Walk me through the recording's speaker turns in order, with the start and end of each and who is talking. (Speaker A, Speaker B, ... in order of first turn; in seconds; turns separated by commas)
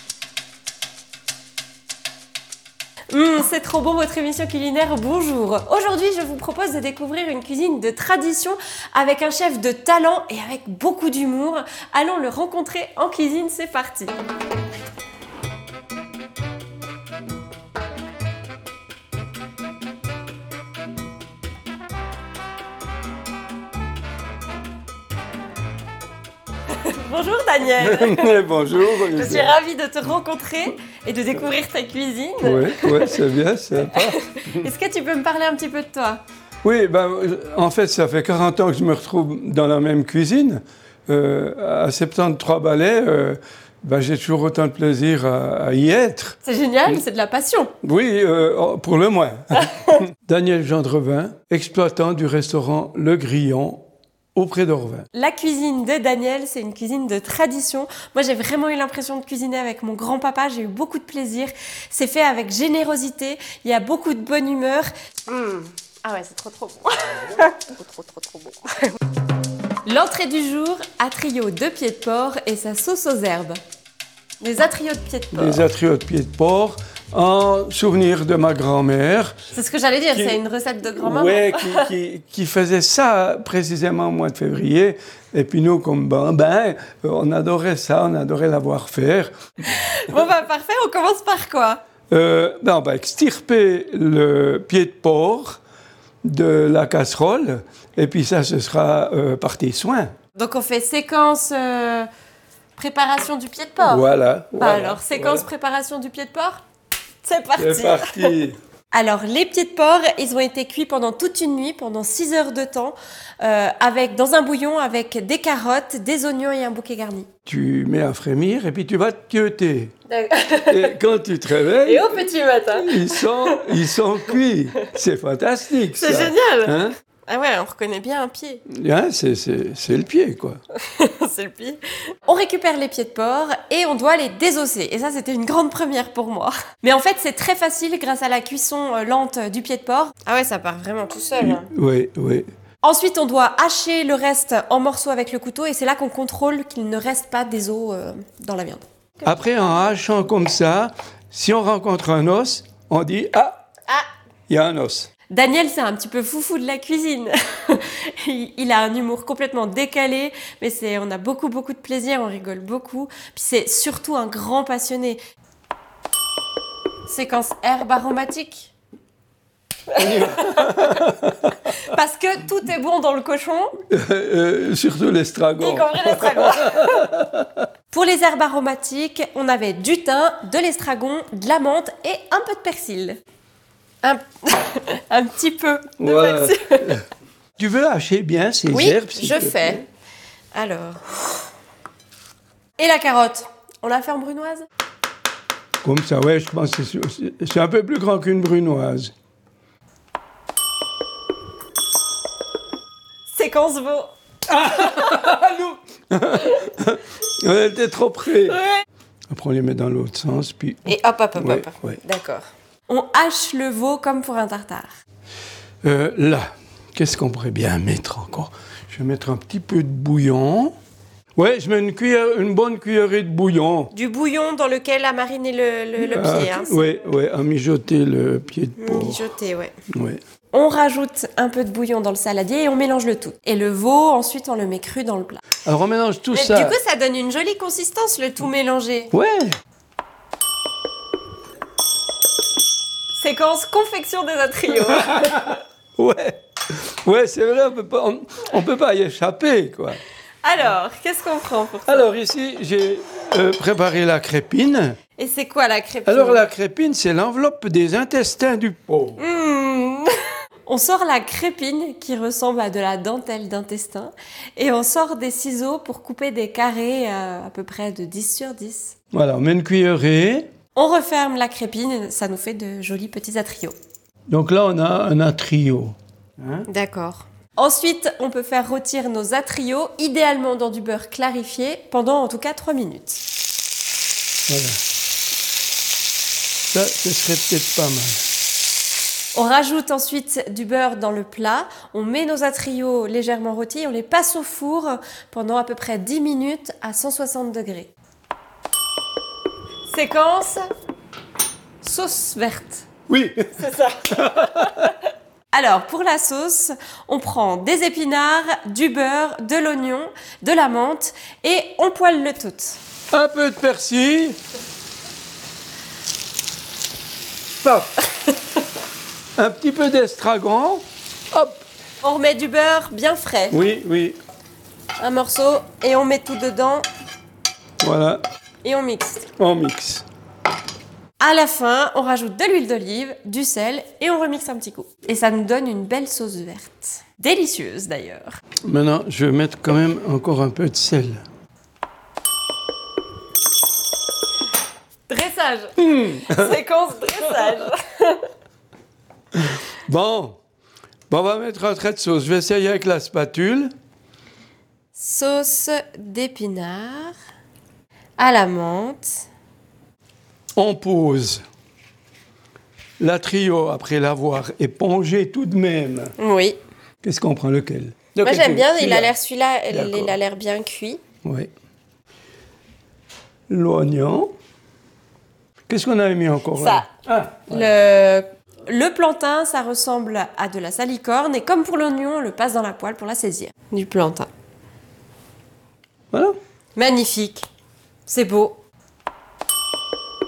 Speaker A: 3.1-14.1, Speaker A: 26.7-36.2, Speaker B: 27.8-29.5, Speaker B: 32.4-34.7, Speaker B: 36.6-46.4, Speaker A: 46.4-47.7, Speaker B: 47.8-55.1, Speaker A: 49.6-50.0, Speaker A: 55.1-68.9, Speaker A: 69.9-73.6, Speaker A: 74.4-75.7, Speaker B: 75.3-79.4, Speaker A: 79.5-81.9, Speaker B: 80.1-80.4, Speaker B: 80.9-89.3, Speaker A: 89.6-91.8, Speaker B: 92.1-95.6, Speaker B: 96.2-100.1, Speaker A: 100.3-102.1, Speaker A: 102.8-106.6, Speaker B: 103.8-105.5, Speaker A: 107.2-108.3, Speaker B: 107.6-108.6, Speaker A: 108.9-117.3, Speaker B: 117.5-119.9, Speaker A: 120.1-121.0, Speaker B: 120.7-127.0, Speaker A: 121.8-123.8, Speaker A: 126.0-128.6, Speaker B: 128.7-130.6, Speaker A: 130.8-141.7, Speaker B: 141.4-142.5, Speaker A: 142.8-148.8, Speaker B: 149.2-153.6, Speaker B: 154.5-155.1, Speaker A: 155.3-165.2, Speaker A: 167.1-168.7, Speaker A: 169.9-171.1, Speaker B: 170.0-171.6, Speaker A: 171.7-173.7, Speaker B: 173.9-177.6, Speaker A: 175.6-177.1, Speaker A: 177.9-183.2, Speaker A: 184.0-187.0, Speaker B: 186.0-187.0, Speaker B: 187.6-189.8, Speaker A: 188.7-189.8, Speaker A: 190.5-191.3, Speaker A: 192.8-194.7, Speaker B: 195.8-199.1, Speaker A: 203.3-204.1, Speaker B: 204.5-208.6, Speaker A: 204.6-205.2, Speaker B: 209.3-212.0, Speaker A: 210.9-215.0, Speaker B: 215.8-220.7, Speaker B: 221.4-223.9, Speaker A: 223.9-226.9, Speaker B: 226.0-229.2, Speaker A: 228.8-229.7, Speaker B: 229.9-230.2, Speaker A: 230.5-235.5, Speaker B: 235.7-236.8, Speaker A: 236.3-239.1, Speaker B: 239.1-239.6, Speaker A: 243.2-245.6, Speaker B: 245.0-250.0, Speaker A: 250.4-252.1, Speaker B: 251.9-255.0, Speaker A: 255.2-256.4, Speaker B: 256.1-259.2, Speaker A: 259.2-260.1, Speaker A: 260.7-268.9, Speaker B: 269.1-270.5, Speaker A: 270.8-273.8, Speaker B: 274.3-276.7, Speaker A: 276.7-283.2, Speaker B: 284.5-284.8, Speaker B: 286.7-288.2, Speaker A: 289.4-297.9, Speaker A: 299.9-300.7, Speaker A: 301.8-302.9, Speaker B: 303.1-304.9, Speaker A: 303.6-304.9, Speaker A: 305.5-312.8, Speaker B: 313.1-314.4, Speaker B: 317.6-318.0, Speaker B: 319.4-321.6, Speaker A: 322.0-323.6, Speaker B: 323.5-324.2, Speaker A: 325.0-326.9, Speaker B: 327.8-328.2, Speaker A: 328.6-329.3, Speaker B: 329.4-330.1, Speaker A: 331.2-338.4, Speaker B: 338.7-341.2, Speaker A: 345.1-348.3, Speaker B: 345.8-346.6, Speaker B: 347.1-347.6, Speaker B: 349.4-350.4, Speaker B: 351.1-353.7, Speaker A: 354.9-357.1, Speaker A: 358.2-359.2, Speaker B: 360.6-361.4, Speaker B: 363.0-366.1, Speaker A: 366.2-366.6, Speaker B: 367.0-369.1, Speaker A: 368.2-371.0, Speaker B: 369.7-370.1, Speaker B: 371.2-371.5, Speaker B: 373.5-374.3, Speaker B: 375.7-377.7, Speaker A: 376.5-376.9, Speaker A: 377.5-384.3, Speaker B: 386.1-386.4, Speaker A: 386.8-387.5, Speaker A: 388.1-388.6